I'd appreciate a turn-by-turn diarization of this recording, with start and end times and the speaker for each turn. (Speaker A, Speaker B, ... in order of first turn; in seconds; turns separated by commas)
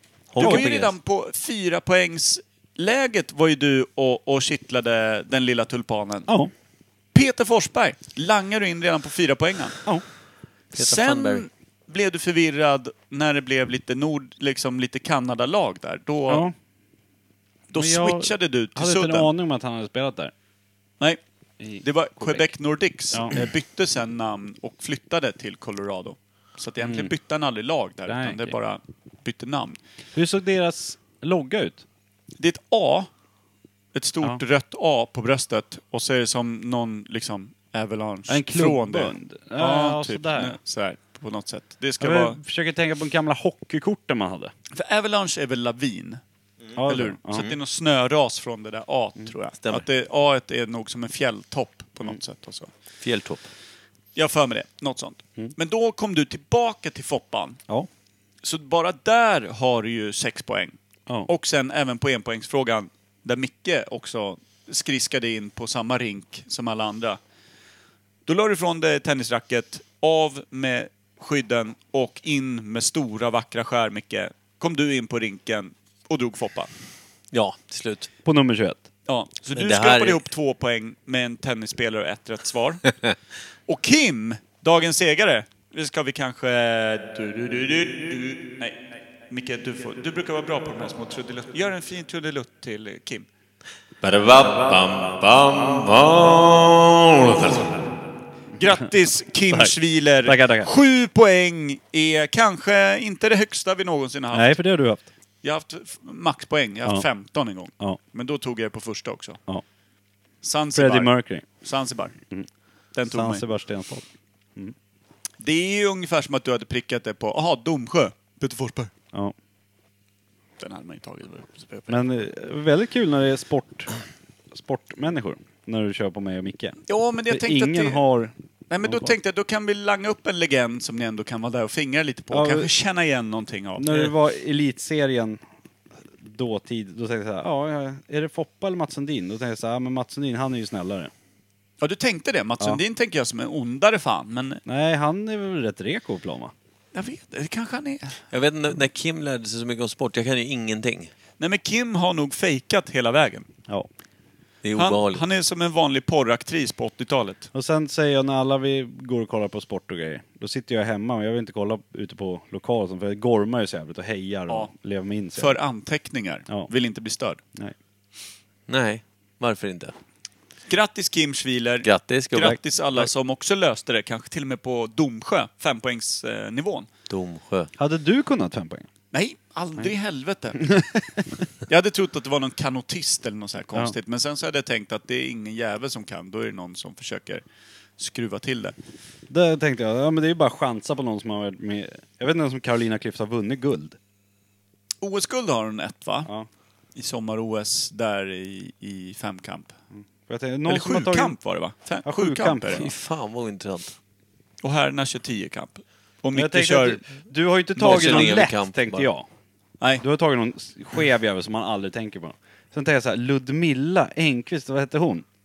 Speaker A: 0.3-0.9, Speaker B: 0.4-6.3, Speaker C: 0.4-0.7, Speaker B: 7.1-9.8, Speaker A: 10.7-11.4, Speaker B: 10.8-16.5, Speaker C: 16.3-16.6, Speaker B: 17.7-19.3, Speaker C: 17.8-20.3, Speaker C: 21.6-22.5, Speaker B: 21.8-29.8, Speaker C: 23.1-23.4, Speaker C: 26.8-27.1, Speaker C: 28.1-28.5, Speaker C: 30.1-31.8, Speaker B: 32.4-33.1, Speaker B: 34.0-42.4, Speaker C: 38.3-40.6, Speaker C: 42.0-44.5, Speaker B: 44.7-46.2, Speaker C: 46.8-47.5, Speaker B: 46.9-52.7, Speaker A: 53.0-53.5, Speaker B: 54.1-57.6, Speaker B: 58.4-60.8, Speaker B: 61.3-67.2, Speaker B: 68.3-76.7, Speaker A: 77.3-78.1, Speaker C: 78.2-78.8, Speaker B: 79.1-82.9, Speaker A: 79.5-80.3, Speaker B: 83.7-93.3, Speaker A: 94.0-97.7, Speaker B: 98.6-104.6, Speaker C: 99.5-100.7, Speaker C: 104.3-105.1, Speaker B: 105.4-109.4, Speaker B: 110.4-112.1, Speaker C: 110.8-111.5, Speaker B: 112.9-113.4, Speaker C: 113.1-114.8, Speaker B: 115.4-118.9, Speaker B: 120.6-122.0, Speaker C: 121.9-123.9, Speaker C: 124.5-126.8, Speaker B: 126.9-128.0, Speaker C: 127.3-129.2, Speaker B: 128.7-134.1, Speaker C: 132.3-132.7, Speaker C: 133.8-135.4, Speaker C: 136.1-141.1, Speaker B: 141.8-144.6, Speaker C: 144.7-146.5, Speaker B: 146.9-148.2, Speaker A: 148.3-151.1, Speaker B: 151.4-153.5, Speaker A: 154.6-155.2, Speaker B: 154.8-157.5, Speaker C: 157.5-165.6, Speaker B: 165.4-167.4, Speaker A: 168.7-169.9, Speaker B: 170.7-176.9, Speaker A: 171.8-172.6, Speaker C: 172.4-173.1, Speaker A: 177.1-177.7, Speaker C: 177.8-178.9, Speaker B: 179.1-180.6, Speaker C: 180.6-181.2, Speaker B: 181.7-187.4, Speaker B: 188.0-188.8, Speaker C: 189.3-194.0, Speaker B: 195.0-196.3, Speaker B: 197.0-199.7, Speaker C: 200.0-201.4, Speaker B: 200.7-202.9, Speaker C: 202.0-202.8, Speaker A: 202.7-203.9, Speaker B: 204.6-207.0, Speaker C: 206.3-209.3, Speaker A: 207.8-209.1, Speaker B: 207.8-208.3, Speaker C: 210.0-215.2